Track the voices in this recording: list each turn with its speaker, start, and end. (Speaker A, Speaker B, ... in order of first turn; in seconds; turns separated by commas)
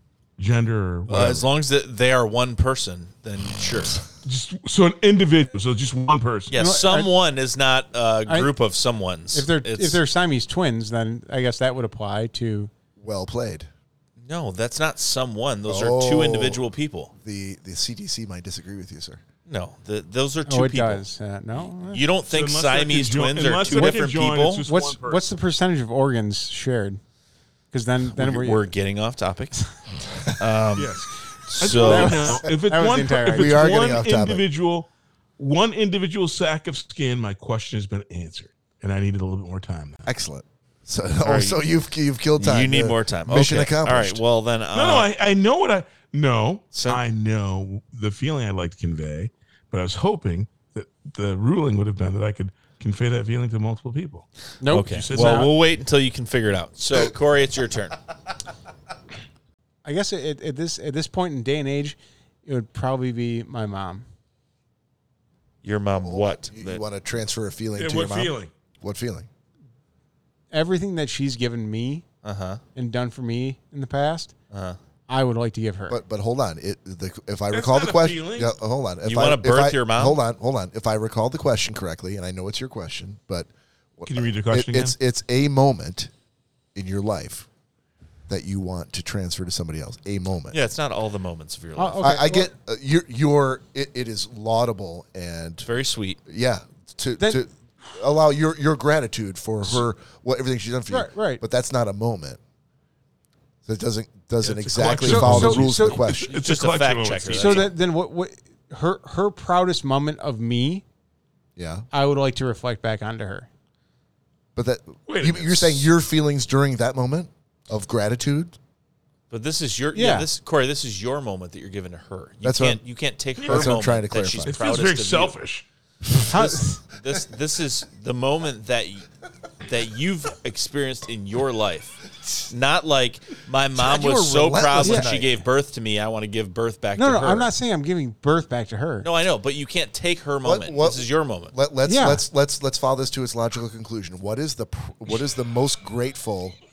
Speaker A: 0.4-1.5, Speaker B: 1.1-4.0, Speaker A: 4.2-6.5, Speaker B: 6.5-10.0, Speaker C: 6.5-7.1, Speaker C: 9.3-12.7, Speaker D: 13.0-13.7, Speaker B: 14.2-17.1, Speaker D: 15.7-16.6, Speaker D: 17.2-19.2, Speaker B: 19.5-21.0, Speaker C: 20.5-22.0, Speaker B: 21.6-24.6, Speaker A: 22.3-25.4, Speaker C: 23.7-24.1, Speaker C: 24.6-27.0, Speaker C: 27.7-28.7, Speaker B: 28.1-29.6, Speaker B: 30.3-32.4, Speaker A: 30.8-40.0, Speaker C: 31.7-33.6, Speaker D: 33.2-34.4, Speaker D: 40.0-44.2, Speaker B: 41.2-41.6, Speaker B: 42.4-45.1, Speaker A: 44.7-54.3, Speaker B: 46.7-47.0, Speaker C: 54.6-55.5, Speaker B: 54.7-58.0, Speaker A: 54.9-55.5, Speaker C: 59.9-64.0, Speaker B: 65.6-66.8, Speaker D: 66.0-69.3, Speaker A: 67.8-68.5, Speaker C: 70.5-72.0, Speaker B: 72.2-72.6, Speaker C: 72.8-74.3, Speaker B: 74.5-74.8, Speaker C: 75.1-76.0, Speaker D: 75.9-86.1, Speaker A: 77.5-78.5, Speaker B: 79.0-80.2, Speaker A: 84.1-85.0, Speaker D: 86.8-87.5, Speaker D: 88.3-90.6, Speaker B: 90.5-92.1, Speaker C: 91.8-92.5, Speaker D: 92.0-95.7, Speaker B: 95.7-96.2, Speaker D: 96.3-102.4, Speaker C: 100.9-101.4, Speaker D: 103.7-106.3, Speaker A: 104.4-107.7, Speaker C: 105.0-106.0, Speaker B: 106.3-107.7, Speaker C: 107.3-110.8, Speaker D: 111.6-111.9, Speaker C: 111.9-113.5, Speaker D: 114.6-118.6, Speaker A: 115.1-115.9, Speaker B: 119.3-125.3, Speaker C: 119.9-120.3, Speaker D: 122.4-122.8, Speaker A: 123.4-123.8, Speaker D: 123.4-124.6, Speaker A: 124.4-125.6, Speaker C: 126.3-126.8, Speaker B: 126.3-129.1, Speaker B: 129.7-137.5, Speaker D: 133.8-135.4, Speaker C: 134.8-135.1, Speaker C: 137.0-139.1, Speaker B: 139.0-141.5, Speaker D: 140.4-146.6, Speaker C: 141.9-142.2